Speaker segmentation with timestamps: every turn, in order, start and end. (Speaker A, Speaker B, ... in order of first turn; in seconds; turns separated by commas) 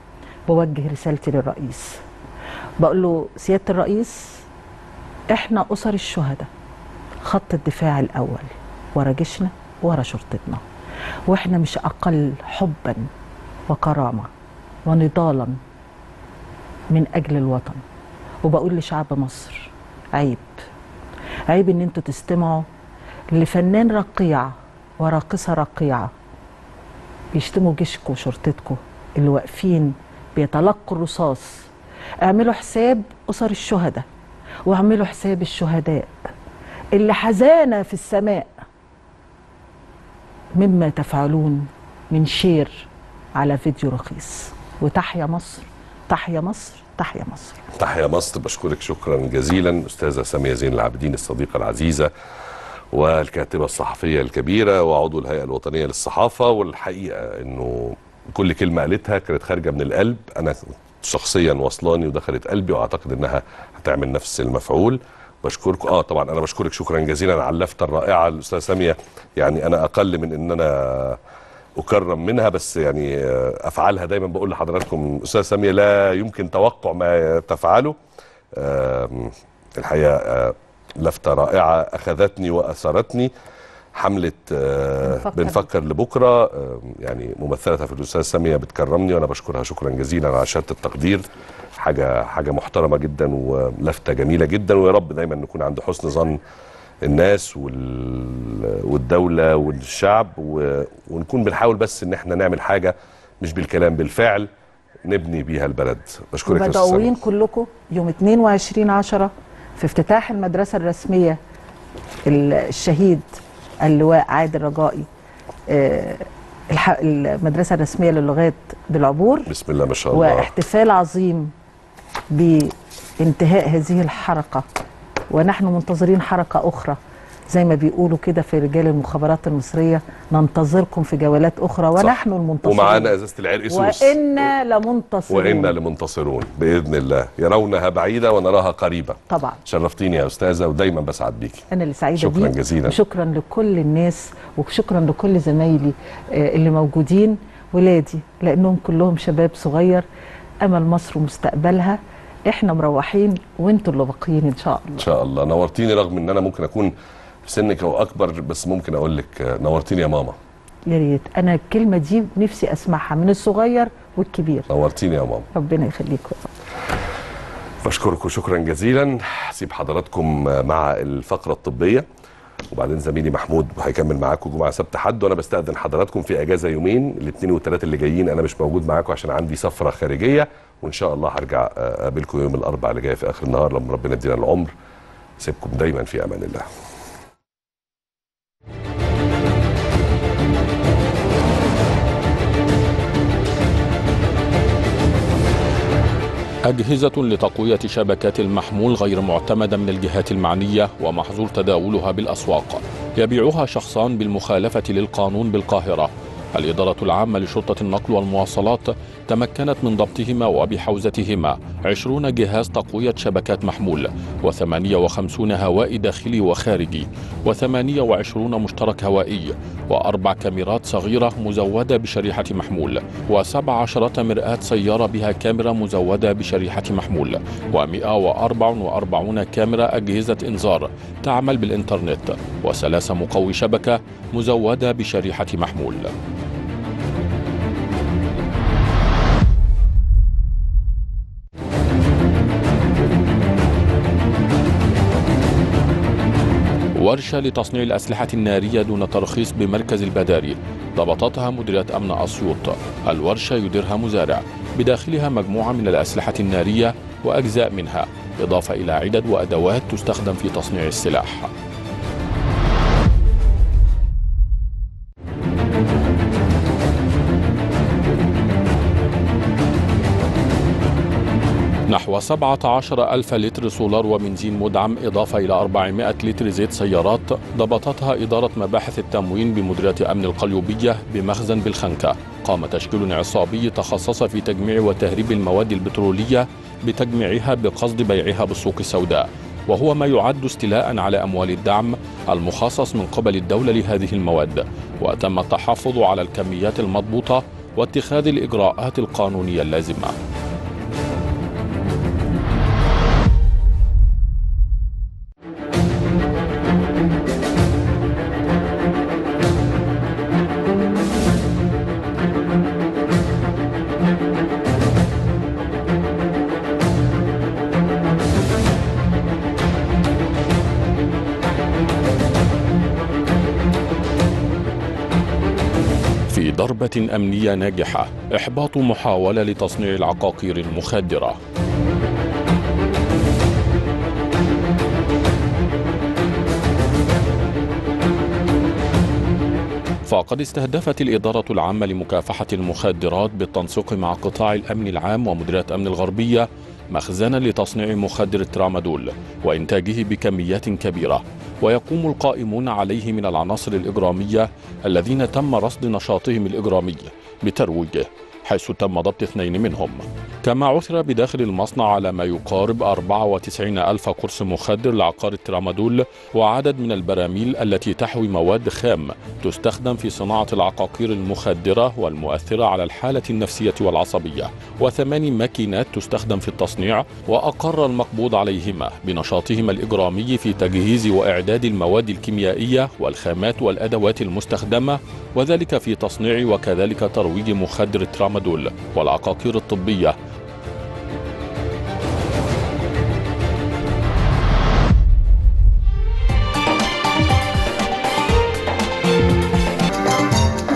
Speaker A: 0.5-2.0, Speaker A: 2.8-4.4, Speaker A: 5.3-6.5, Speaker A: 7.2-10.6, Speaker A: 11.3-13.1, Speaker A: 13.7-14.3, Speaker A: 14.8-15.6, Speaker A: 16.9-17.8, Speaker A: 18.4-20.5, Speaker A: 21.5-22.7, Speaker A: 23.3-26.1, Speaker A: 27.3-31.6, Speaker A: 32.2-34.0, Speaker A: 34.7-36.1, Speaker A: 36.9-38.5, Speaker A: 40.6-47.6, Speaker B: 47.8-52.1, Speaker B: 52.9-71.2, Speaker B: 71.8-78.0, Speaker B: 78.6-83.3, Speaker B: 84.0-91.2, Speaker A: 85.0-85.7, Speaker B: 91.8-96.4, Speaker B: 97.0-104.5, Speaker B: 105.0-107.2, Speaker A: 106.5-111.4, Speaker A: 112.3-113.3, Speaker A: 113.8-115.1, Speaker A: 115.7-119.5, Speaker B: 119.5-120.5, Speaker A: 120.1-121.5, Speaker A: 122.3-124.7, Speaker A: 125.3-127.0, Speaker A: 127.5-133.2, Speaker B: 132.0-134.2, Speaker A: 133.7-135.8, Speaker B: 135.3-141.7, Speaker A: 139.3-139.6, Speaker A: 141.7-150.1, Speaker B: 142.2-143.0, Speaker A: 150.6-155.1, Speaker B: 155.0-156.9, Speaker B: 157.5-160.4, Speaker A: 160.9-164.7, Speaker B: 164.7-165.5, Speaker A: 165.5-166.5, Speaker B: 167.8-172.1, Speaker B: 172.7-184.7, Speaker B: 185.4-186.7, Speaker C: 196.7-236.1, Speaker C: 247.0-261.5, Speaker C: 271.9-300.1, Speaker C: 326.3-331.4, Speaker C: 340.1-390.2